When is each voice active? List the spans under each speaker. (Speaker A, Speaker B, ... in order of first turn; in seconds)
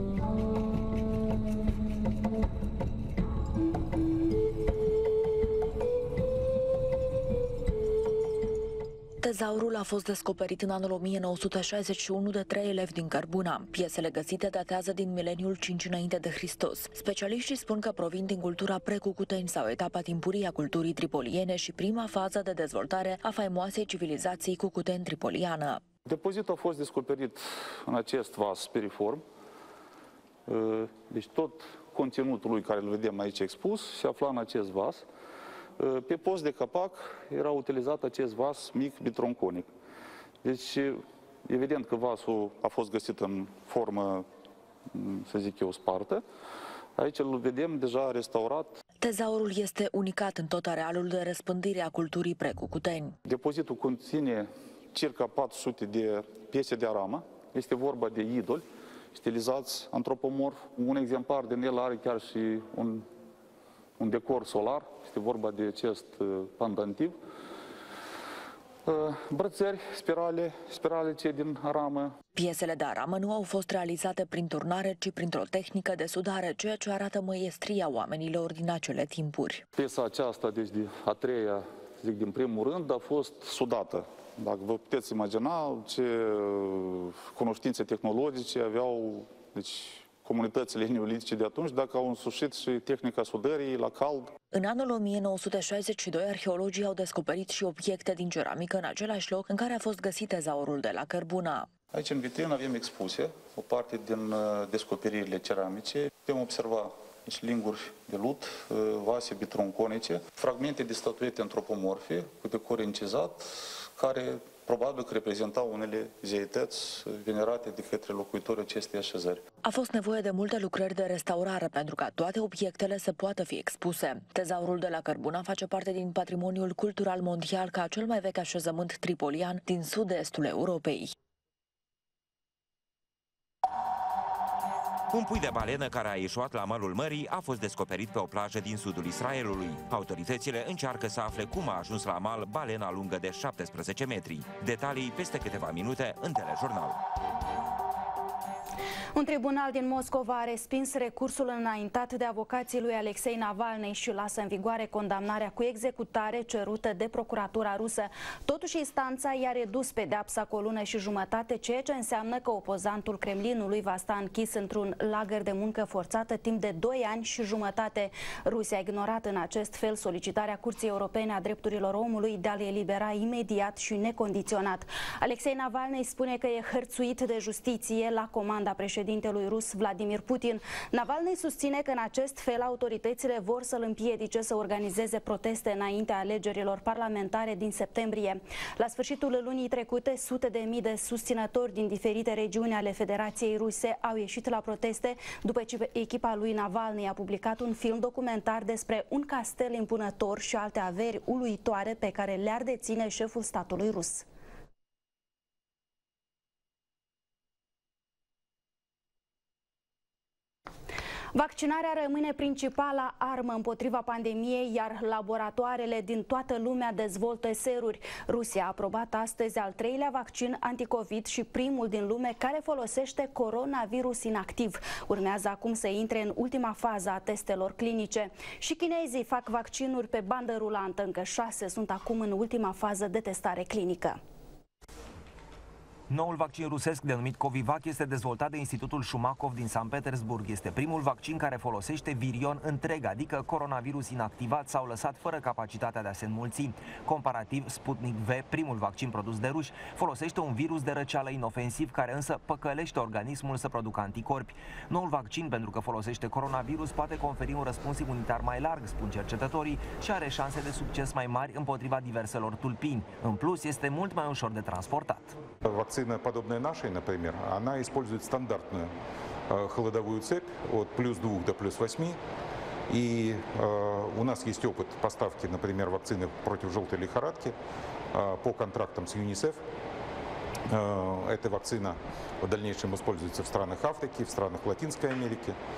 Speaker A: 9.2-25.8, 49.0-53.1, 72.3-79.6, 94.5-101.7, 119.6-131.1
Speaker B: 26.1-29.2, 30.5-35.0, 35.8-39.6, 40.4-44.2, 44.9-46.2, 47.0-48.7, 53.3-58.6, 59.1-63.0, 64.0-67.1, 68.9-72.1, 79.8-94.3, 101.9-113.4, 114.0-119.4
Speaker C: 135.1-147.0
Speaker D: 149.1-204.3, 211.3-234.2
Speaker E: 236.1-265.4
Speaker F: 265.6-268.9, 269.5-272.2, 272.9-277.5, 278.1-279.6, 280.7-285.6